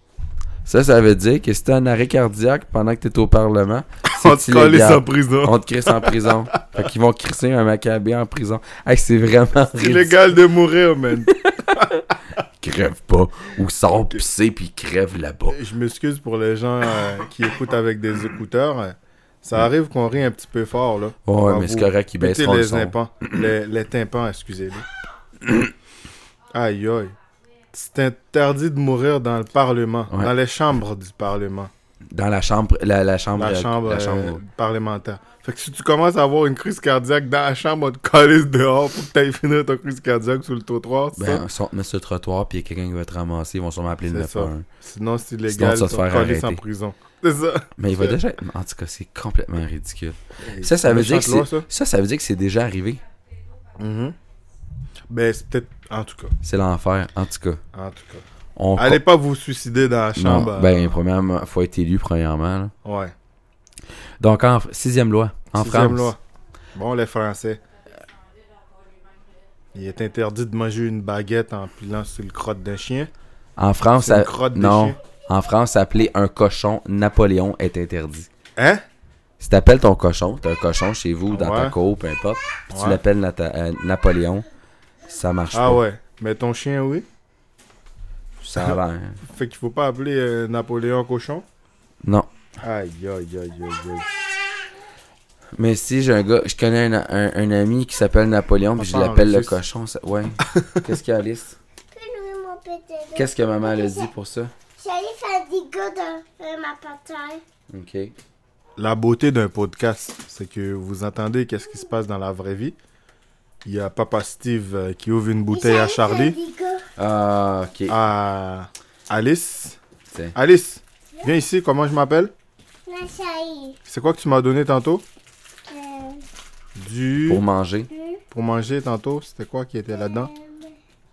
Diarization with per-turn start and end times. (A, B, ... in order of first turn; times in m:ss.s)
0:00.6-0:10.2 A
0:04.1-0:06.9 B
0:09.7-0:11.8 B
0:11.3-0:15.6 A
0:15.5-0:24.8 B
0:21.2-0:23.0 A
0:26.5-0:27.1 B
0:27.7-0:31.7 B
0:32.1-0:34.4 A
0:33.3-0:41.4 B
0:41.2-0:44.6 A
0:44.1-0:48.2 B
0:45.5-0:46.6 A
0:47.8-0:53.0 A
0:50.4-0:51.7 B
0:53.8-0:54.2 B
0:55.1-0:56.3 B
0:56.4-0:57.6 A
0:57.7-0:58.2 B
0:58.6-0:59.0 A
0:58.8-1:01.0 B
1:00.1-1:02.7 A
1:02.8-1:03.1 B
1:04.2-1:06.1 A
1:05.5-1:06.2 B
1:06.7-1:07.6 B
1:09.7-1:13.1 B
1:13.6-1:18.3 A
1:14.0-1:15.0 B
1:18.6-1:18.8 B
1:19.4-1:24.4 A
1:21.3-1:21.8 B
1:22.7-1:23.0 B
1:25.1-1:25.8 A
1:25.5-1:27.0 B
1:28.4-1:29.2 A
1:28.6-1:31.4 B
1:32.0-1:32.3 A
1:32.6-1:34.1 B
1:35.6-1:41.6 A
1:38.8-1:39.6 B
1:41.9-1:44.1 C
1:43.1-1:44.5 A
1:44.8-1:47.4 C
1:47.7-1:48.1 A
1:48.8-1:52.8 B
1:53.6-1:56.4 B
1:55.5-1:56.9 C
1:57.0-1:58.0 A
1:57.9-1:59.8 B
2:00.3-2:02.3 B
2:02.9-2:03.8 C
2:03.8-2:05.0 B
2:05.7-2:06.2 C
2:06.8-2:07.4 B
2:07.2-2:07.9 A
2:07.9-2:08.2 C
2:08.3-2:10.3 B
2:10.0-2:10.7 C